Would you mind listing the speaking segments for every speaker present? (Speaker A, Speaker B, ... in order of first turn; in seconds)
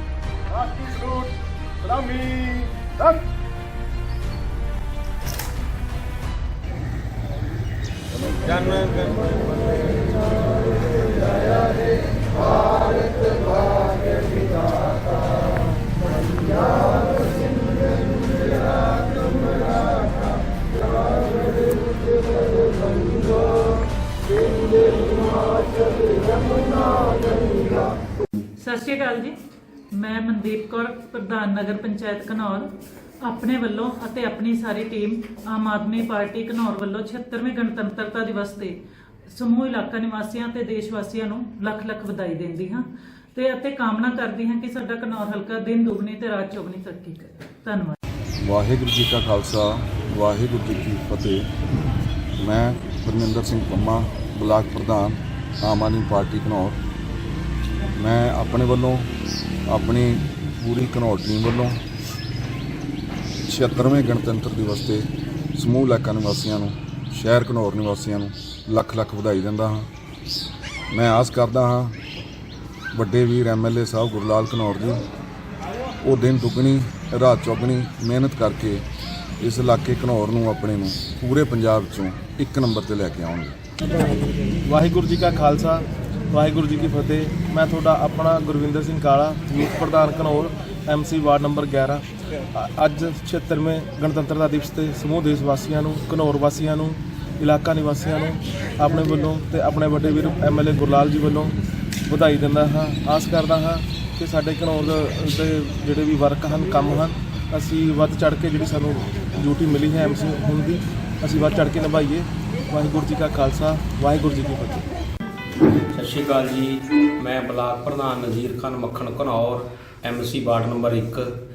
Speaker A: 0.5-2.9, 84.7-101.6, 102.1-114.9
Speaker B: 8.4-9.3, 115.9-121.4
Speaker C: 26.7-27.8, 28.6-29.4, 29.9-38.8, 39.3-48.0
Speaker D: 48.4-51.5, 52.4-56.8, 58.0-59.1, 59.7-61.8, 63.5-69.9, 70.9-72.0, 72.9-75.1, 76.0-78.8, 79.4-83.6